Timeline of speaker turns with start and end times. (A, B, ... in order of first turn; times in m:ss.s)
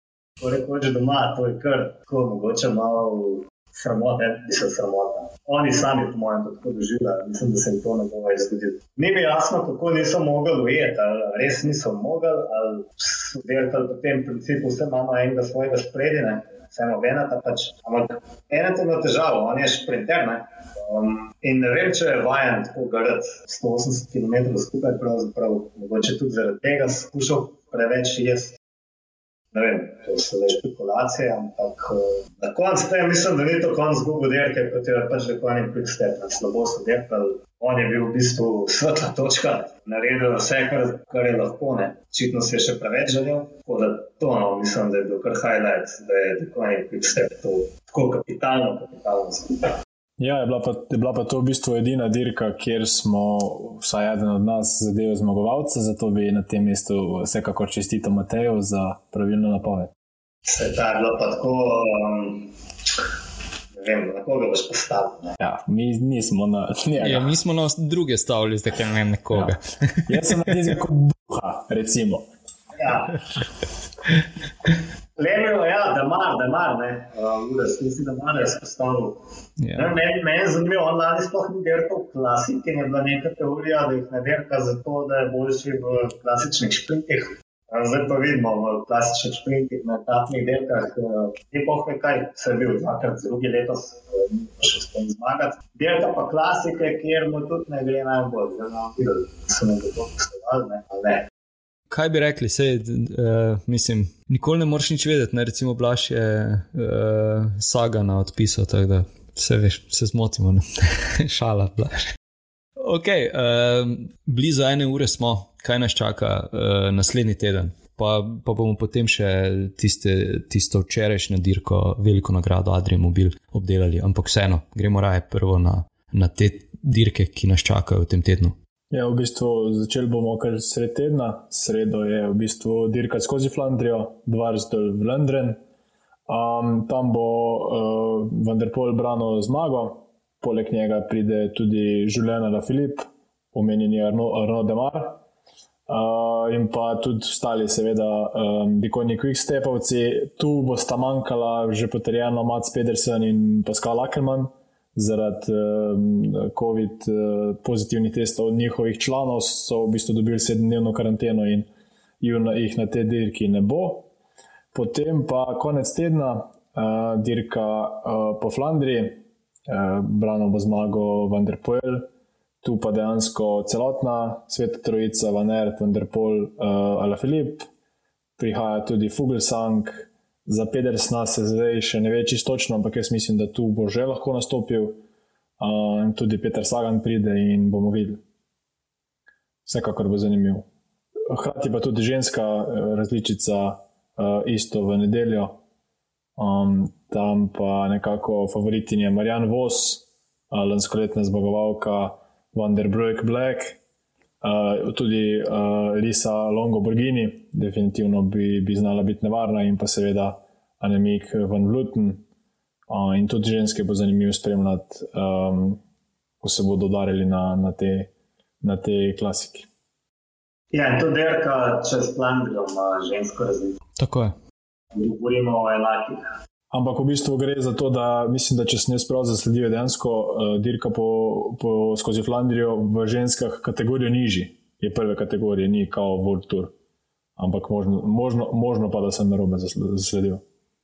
0:00.4-0:28.6 A
0:29.5-0:49.8 A
0:50.2-0:59.9 B
1:00.5-1:02.5 A
1:03.7-1:05.4 A
1:05.4-1:07.4 B
1:07.0-1:10.3 C
1:10.1-1:12.3 B
1:12.8-1:13.2 A
1:15.2-1:19.2 A
1:19.6-1:19.9 C
1:19.8-1:41.3 A
1:41.9-1:52.1 C
1:52.8-2:08.6 C
2:08.9-2:15.6 B
2:16.3-2:25.2 B
2:25.9-2:41.7 B
2:42.2-2:44.1 B
2:44.7-2:52.1 B
2:52.6-2:57.7 B
2:58.4-3:05.0 B
3:05.6-3:08.2 B
3:09.7-3:10.6 B
3:11.3-3:15.6 B
3:16.4-3:23.8 B
3:24.4-3:32.2 B
3:32.9-3:35.8 B
3:36.4-3:38.1 B
3:38.6-3:39.7 B
3:40.7-3:43.8 A
3:44.0-3:44.4 C
3:44.9-3:46.4 A
3:46.7-3:56.7 B
3:57.4-4:00.4 B